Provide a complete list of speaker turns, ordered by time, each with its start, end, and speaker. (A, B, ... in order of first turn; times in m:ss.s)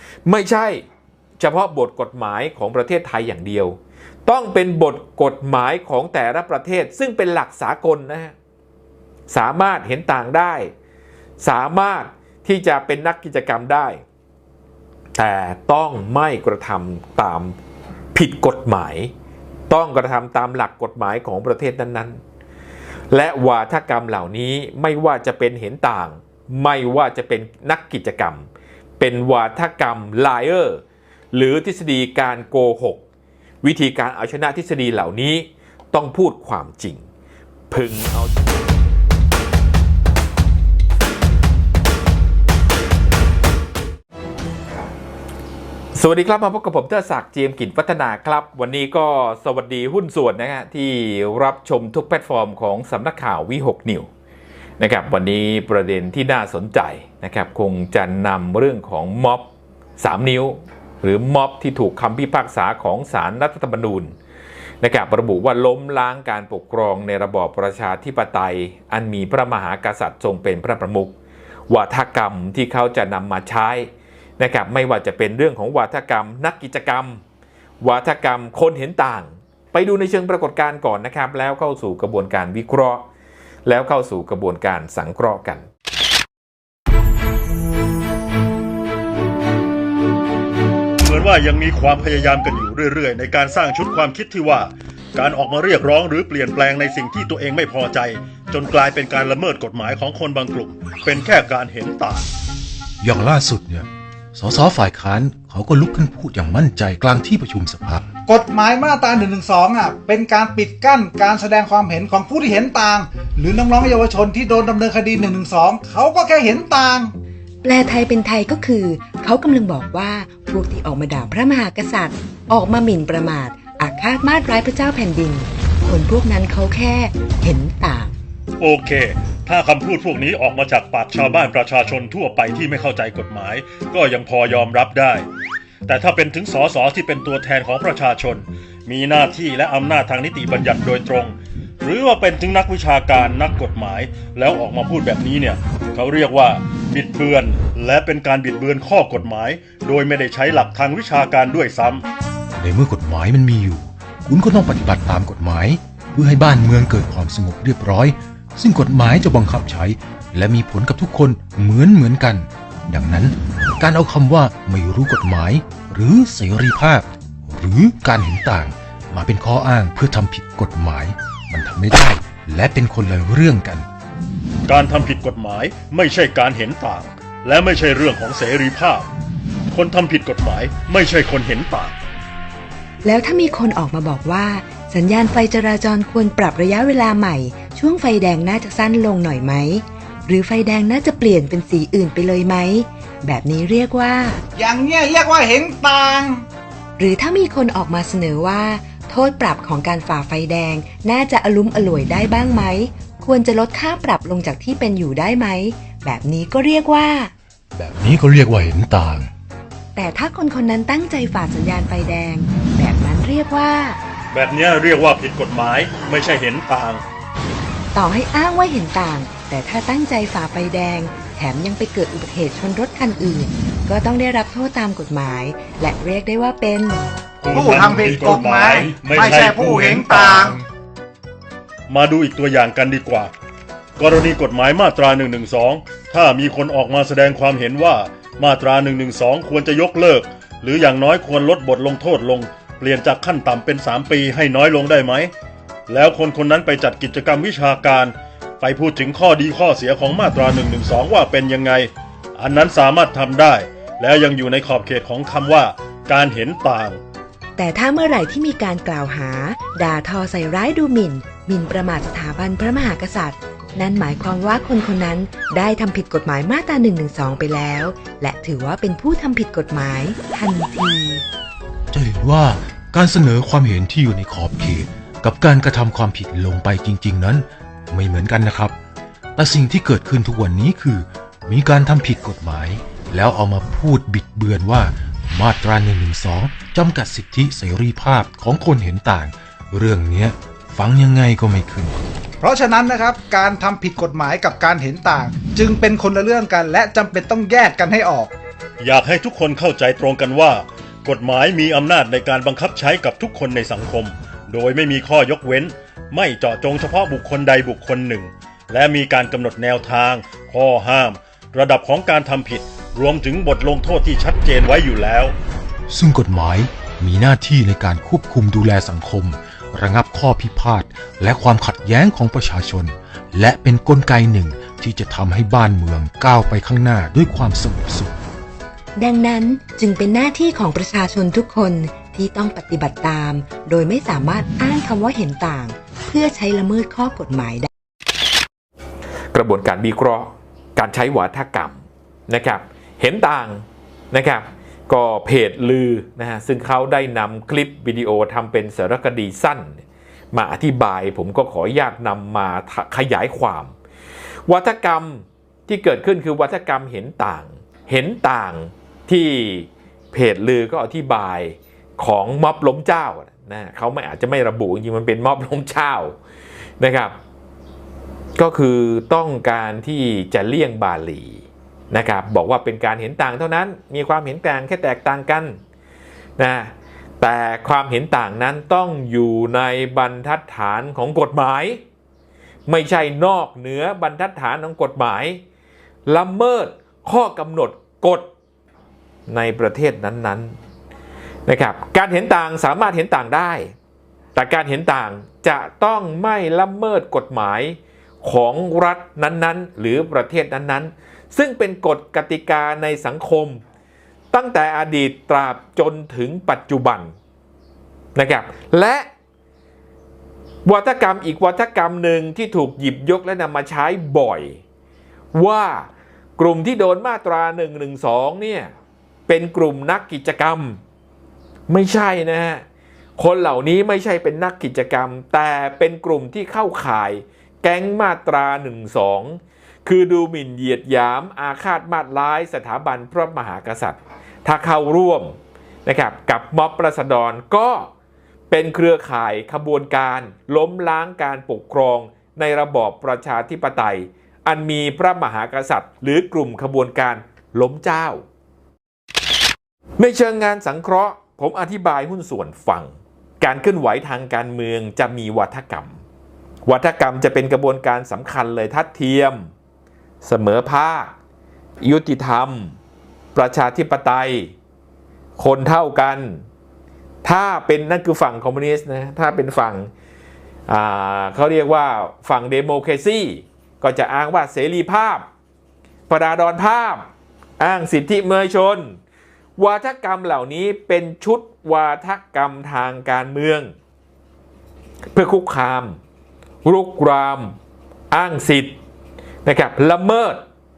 0:00.3-0:00.8 A
0:01.4-0:08.3 A
0:09.3-0:10.7 A
0:11.4-0:14.0 A
0:15.2-0:17.6 A
0:18.1-0:19.1 A
0:19.7-0:22.2 A
0:23.1-0:30.8 A
0:31.3-0:33.0 A
0:33.6-0:37.0 A
0:37.7-0:38.4 A
0:46.0-0:54.1 A
0:54.8-1:04.1 A
1:04.8-1:11.2 A
1:11.7-1:17.2 A
1:17.8-1:23.1 A
1:23.7-1:25.7 A
1:31.0-1:42.3 B
1:43.0-1:48.0 C
1:48.3-1:57.1 D
1:57.6-2:08.1 E
2:08.6-2:15.3 B
2:15.9-2:32.0 B
2:32.6-2:53.9 C
2:54.7-2:59.1 B
2:59.7-3:02.0 B
3:03.0-3:14.4 E
3:14.6-3:16.4 D
3:17.0-3:27.3 E
3:27.8-3:29.3 C
3:30.0-3:34.0 E
3:34.3-3:37.0 B
3:37.9-3:47.1 E
3:47.4-3:50.6 B
3:47.5-3:50.6 D
3:51.9-3:53.3 B
3:54.0-4:05.3 B
4:05.9-4:17.0 B
4:17.6-4:31.2 E
4:31.9-4:38.8 C
4:39.4-4:52.0 C
4:52.4-4:58.3 D
4:58.8-5:15.4 B
5:15.9-5:28.2 C
5:29.0-5:37.7 E
5:39.3-5:53.7 A
5:54.5-6:06.2 A
6:06.8-6:07.2 A
6:08.4-6:15.6 A
6:16.4-6:21.8 A
6:22.7-6:25.4 A
6:26.1-6:28.3 A
6:29.3-6:30.6 A
6:31.5-6:33.7 A
6:34.4-6:43.6 A
6:44.3-6:47.1 A
6:48.2-6:49.1 A
6:50.7-6:54.6 A
6:55.3-6:58.7 A
6:59.3-7:00.8 A
7:01.7-7:02.6 A
7:03.2-7:17.9 A
7:18.5-7:28.2 A
7:30.0-7:36.0 A
7:36.7-7:39.5 A
7:40.2-7:41.2 A
7:41.8-7:42.8 A
7:43.4-7:44.5 A
7:45.4-7:46.4 A
7:47.2-7:49.9 A
7:50.7-7:55.2 A
7:56.1-7:57.1 A
7:57.6-7:59.0 A
7:59.6-8:03.7 A
8:05.1-8:06.0 A
8:06.6-8:07.6 A
8:08.1-8:08.8 A
8:09.4-8:10.4 A